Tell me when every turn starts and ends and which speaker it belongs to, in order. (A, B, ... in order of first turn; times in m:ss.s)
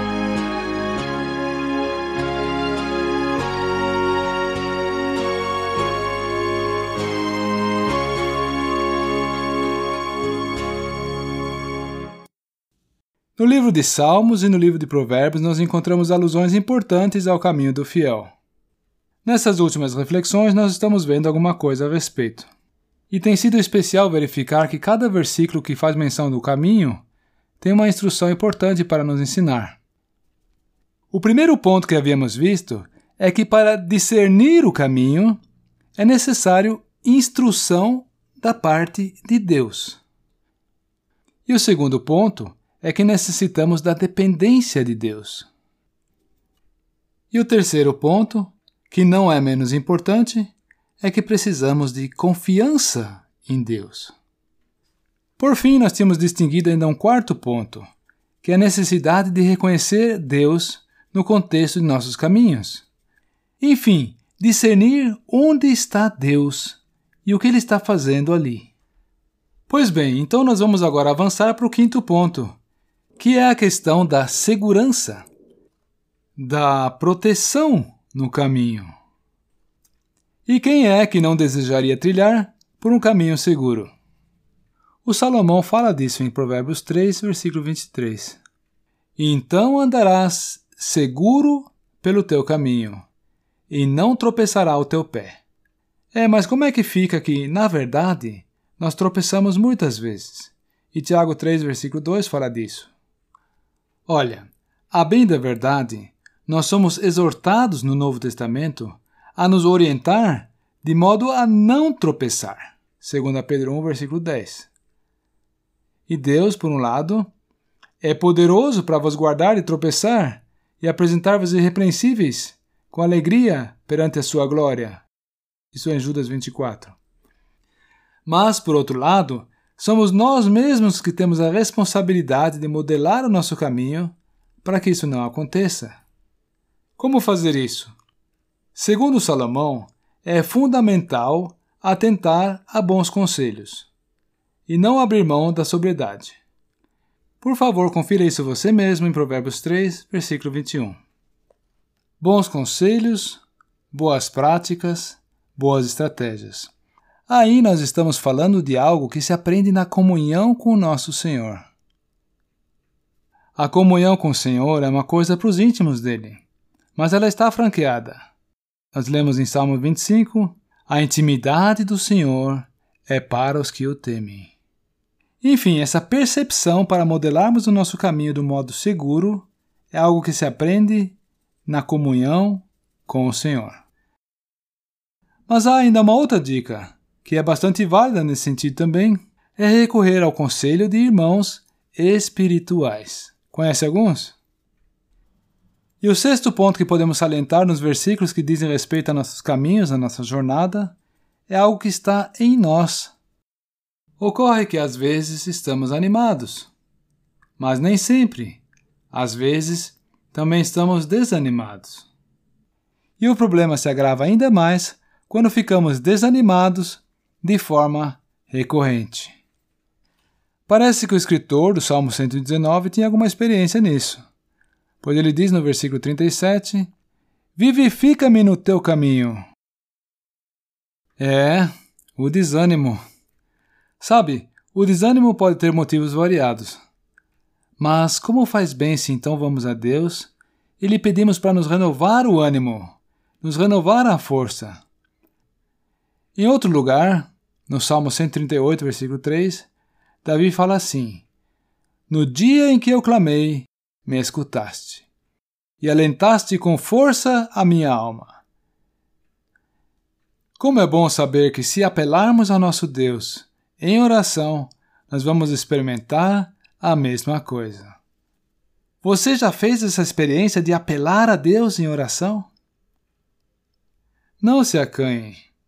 0:13.4-0:18.3 A
0:19.2-0:22.5 A
0:23.1-0:27.0 A
0:27.6-0:29.8 A
0:31.1-0:35.4 A
0:36.0-0:40.0 A
0:41.5-0:45.5 A
0:47.3-0:54.2 A
0:55.4-0:57.8 A
0:58.4-1:02.9 A
1:03.6-1:08.7 A
1:09.7-1:12.6 A
1:13.2-1:15.3 A
1:16.4-1:18.9 A
1:20.5-1:23.9 A
1:25.0-1:28.4 A
1:29.2-1:33.1 A
1:33.7-1:35.4 A
1:36.1-1:42.9 A
1:44.1-1:54.7 A
1:56.1-1:57.3 A
1:58.0-2:05.0 A
2:05.7-2:07.0 A
2:08.3-2:16.0 A
2:17.0-2:18.0 A
2:18.7-2:23.9 A
2:24.7-2:26.4 A
2:27.4-2:31.0 A
2:32.2-2:36.7 A
2:37.3-2:41.7 A
2:43.6-2:46.4 A
2:47.0-2:48.3 A
2:48.9-2:54.5 A
2:55.4-3:03.8 A
3:05.5-3:14.4 A
3:16.0-3:21.0 A
3:21.5-3:23.1 A
3:24.2-3:26.7 A
3:27.6-3:32.1 A
3:33.2-3:39.4 A
3:40.7-3:44.2 A
3:45.0-3:46.9 A
3:47.6-3:49.4 A
3:51.2-3:53.0 A
3:54.0-3:56.8 A
3:57.8-4:04.8 A
4:06.4-4:09.7 A
4:10.2-4:11.2 A
4:12.1-4:15.1 A
4:15.8-4:18.4 A
4:20.6-4:28.0 A
4:29.0-4:32.5 A
4:34.4-4:35.4 A